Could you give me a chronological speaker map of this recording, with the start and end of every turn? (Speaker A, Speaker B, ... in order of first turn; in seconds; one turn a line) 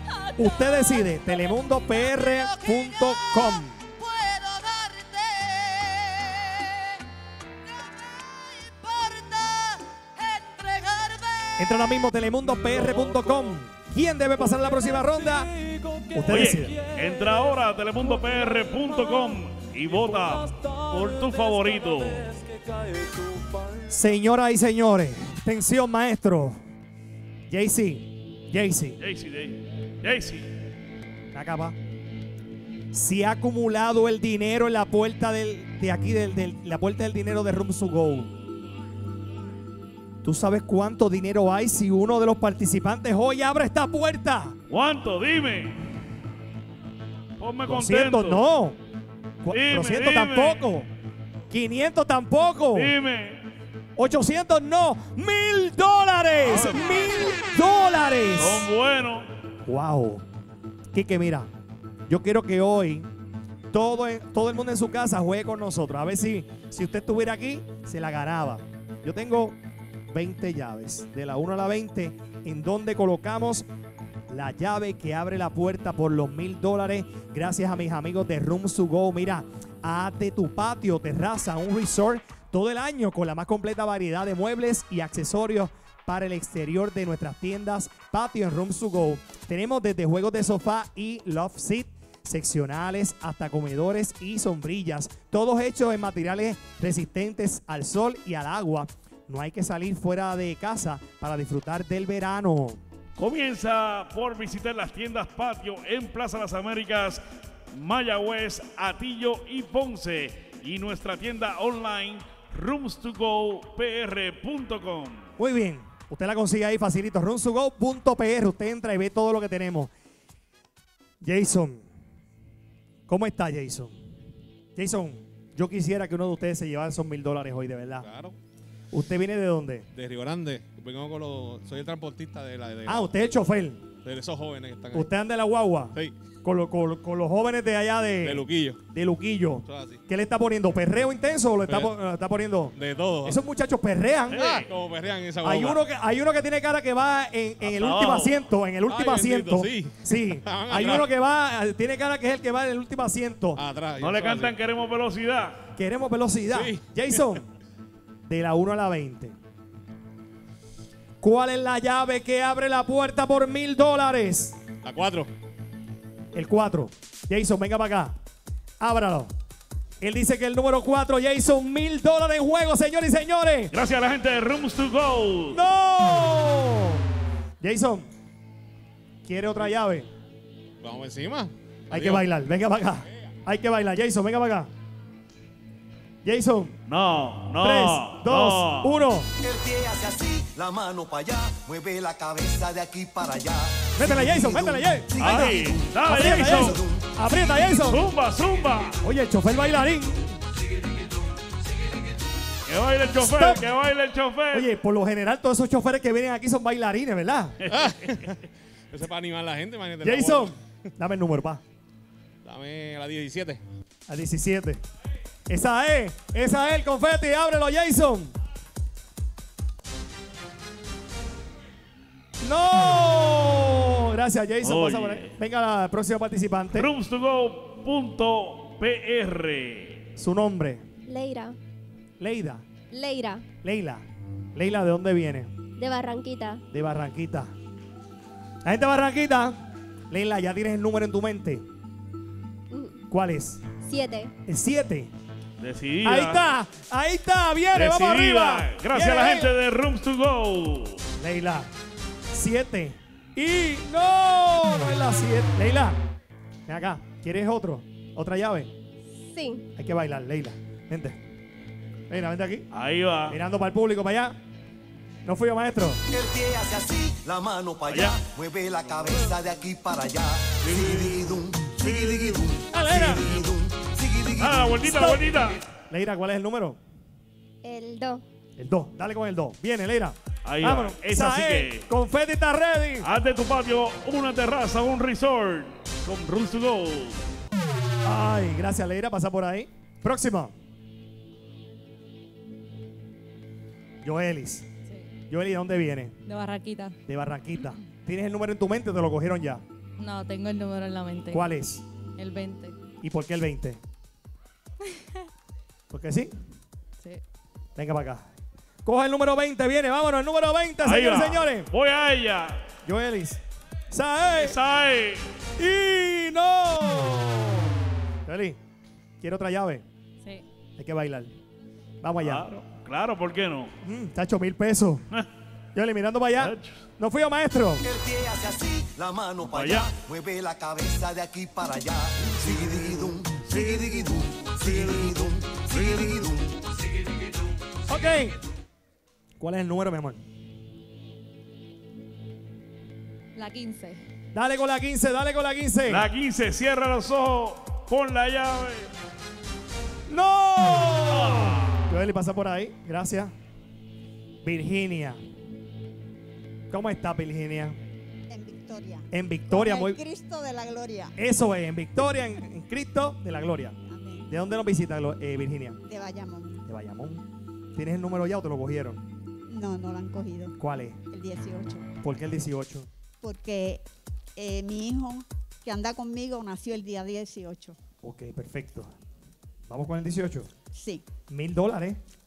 Speaker A: 0.3-3.8
Speaker B: 4.1-7.0
Speaker B: 8.3-11.3
Speaker A: 11.6-15.5
Speaker A: 16.1-16.8
Speaker C: 16.3-22.3
Speaker A: 23.9-26.6
Speaker A: 27.5-29.0
Speaker C: 29.0-30.5
Speaker A: 31.3-31.8
Speaker A: 32.9-38.3
Speaker A: 40.2-44.5
Speaker C: 44.7-45.8
Speaker C: 47.4-48.4
Speaker A: 47.7-48.8
Speaker A: 49.4-50.9
Speaker C: 49.5-50.6
Speaker A: 51.5-52.9
Speaker C: 52.7-53.4
Speaker A: 54.0-58.7
Speaker C: 56.4-57.3
Speaker C: 58.3-59.3
Speaker A: 59.6-60.2
Speaker A: 60.9-61.5
Speaker A: 62.1-63.1
Speaker A: 63.7-69.6
Speaker A: 70.1-73.7
Speaker A: 74.3-102.8
Speaker C: 103.2-115.3
Speaker A: 115.4-119.9
Speaker A: 121.2-121.9
Speaker A: 123.1-123.9
Speaker A: 124.8-128.1
Speaker D: 128.0-128.4
Speaker A: 128.9-129.8
Speaker D: 129.9-133.1
Speaker A: 132.8-133.9
Speaker D: 134.0-135.1
Speaker A: 134.9-144.4
Speaker D: 138.2-138.8
Speaker D: 139.6-140.0
Speaker D: 141.7-141.9
Speaker D: 142.7-143.4
Speaker C: 144.3-144.7
Speaker D: 144.3-145.8
Speaker A: 145.4-153.6
Speaker C: 147.7-148.4
Speaker D: 148.8-151.1
Speaker D: 153.5-154.6
Speaker C: 154.0-155.6
Speaker A: 155.8-157.4
Speaker D: 156.4-157.2
Speaker A: 158.3-159.3
Speaker A: 161.2-164.6
Speaker D: 164.8-165.3
Speaker A: 166.3-168.2
Speaker A: 168.8-169.3
Speaker A: 170.0-173.7
Speaker C: 173.7-175.6
Speaker A: 175.5-177.1
Speaker A: 177.6-178.1
Speaker A: 179.2-180.1
Speaker D: 180.8-182.2
Speaker A: 181.9-184.7
Speaker A: 186.2-186.7
Speaker C: 186.9-189.0
Speaker A: 187.6-189.3
Speaker E: 189.4-197.0
Speaker A: 193.9-198.0
Speaker C: 195.2-196.8
Speaker C: 197.8-199.0
Speaker A: 199.0-200.3
Speaker C: 202.7-204.7
Speaker A: 203.2-203.6
Speaker A: 204.5-207.6
Speaker C: 207.6-208.2
Speaker D: 207.7-208.4
Speaker D: 208.9-210.5
Speaker A: 210.0-211.6
Speaker D: 212.4-213.6
Speaker A: 214.1-214.8
Speaker A: 215.5-218.3
Speaker A: 222.4-226.9
Speaker C: 224.6-225.3
Speaker C: 226.7-230.0
Speaker A: 230.2-230.8
Speaker F: 231.1-231.6
Speaker A: 232.2-232.6
Speaker F: 232.9-233.4
Speaker A: 233.6-235.5
Speaker F: 235.8-236.6
Speaker A: 236.7-237.5
Speaker A: 238.6-239.6
Speaker A: 240.1-241.6
Speaker F: 242.7-243.0
Speaker A: 243.1-243.6
Speaker F: 243.8-244.3
Speaker A: 244.4-245.1
Speaker C: 245.6-246.4
Speaker A: 246.0-249.5
Speaker C: 247.7-251.0
Speaker A: 251.2-251.7
Speaker A: 252.3-256.0
Speaker A: 256.7-258.7
Speaker F: 259.2-259.6
Speaker A: 259.8-261.2
Speaker A: 262.1-262.6
Speaker C: 262.7-263.4
Speaker A: 263.3-264.4
Speaker A: 265.2-266.0
Speaker E: 266.1-274.9
Speaker C: 267.9-268.2
Speaker C: 270.6-272.4
Speaker A: 272.7-273.3
Speaker C: 274.4-275.6
Speaker A: 274.9-275.2
Speaker A: 275.9-276.8
Speaker F: 277.6-278.2
Speaker A: 278.6-283.1
Speaker C: 280.4-281.9
Speaker C: 283.0-287.2
Speaker A: 288.0-290.5
Speaker A: 294.0-294.7
Speaker A: 295.3-296.2
Speaker B: 296.2-297.0
Speaker A: 297.1-299.6
Speaker B: 300.0-301.5
Speaker A: 301.3-301.8
Speaker B: 302.2-302.8
Speaker A: 303.0-303.8
Speaker A: 305.9-306.3
Speaker A: 307.8-308.2
Speaker A: 308.8-311.7
Speaker C: 310.8-312.6
Speaker A: 312.8-314.6
Speaker C: 314.4-315.3
Speaker A: 315.6-318.6
Speaker A: 319.2-319.8
Speaker A: 320.8-321.3
Speaker A: 322.0-322.5
Speaker C: 322.2-323.7
Speaker A: 323.8-325.0
Speaker A: 325.7-327.8
Speaker C: 326.4-326.8
Speaker E: 327.8-336.5
Speaker C: 329.5-329.9
Speaker C: 332.3-336.2
Speaker A: 337.9-338.4
Speaker A: 339.4-340.2
Speaker B: 343.4-344.0
Speaker A: 344.3-346.1
Speaker C: 345.9-348.9
Speaker A: 350.1-353.3
Speaker C: 351.1-351.9
Speaker A: 354.4-355.2
Speaker A: 356.7-357.8
Speaker G: 358.3-361.1
Speaker A: 359.1-360.0
Speaker A: 361.1-363.8
Speaker G: 363.9-364.3
Speaker A: 364.3-365.8
Speaker G: 365.9-366.6
Speaker A: 366.7-367.2
Speaker A: 367.8-369.0
Speaker G: 369.5-370.6
Speaker A: 370.6-371.0
Speaker G: 371.1-371.9
Speaker A: 372.0-372.9
Speaker G: 373.2-373.8
Speaker G: 374.4-377.8
Speaker A: 378.0-378.9
Speaker A: 379.7-380.5
Speaker G: 380.7-381.1
Speaker A: 381.3-382.0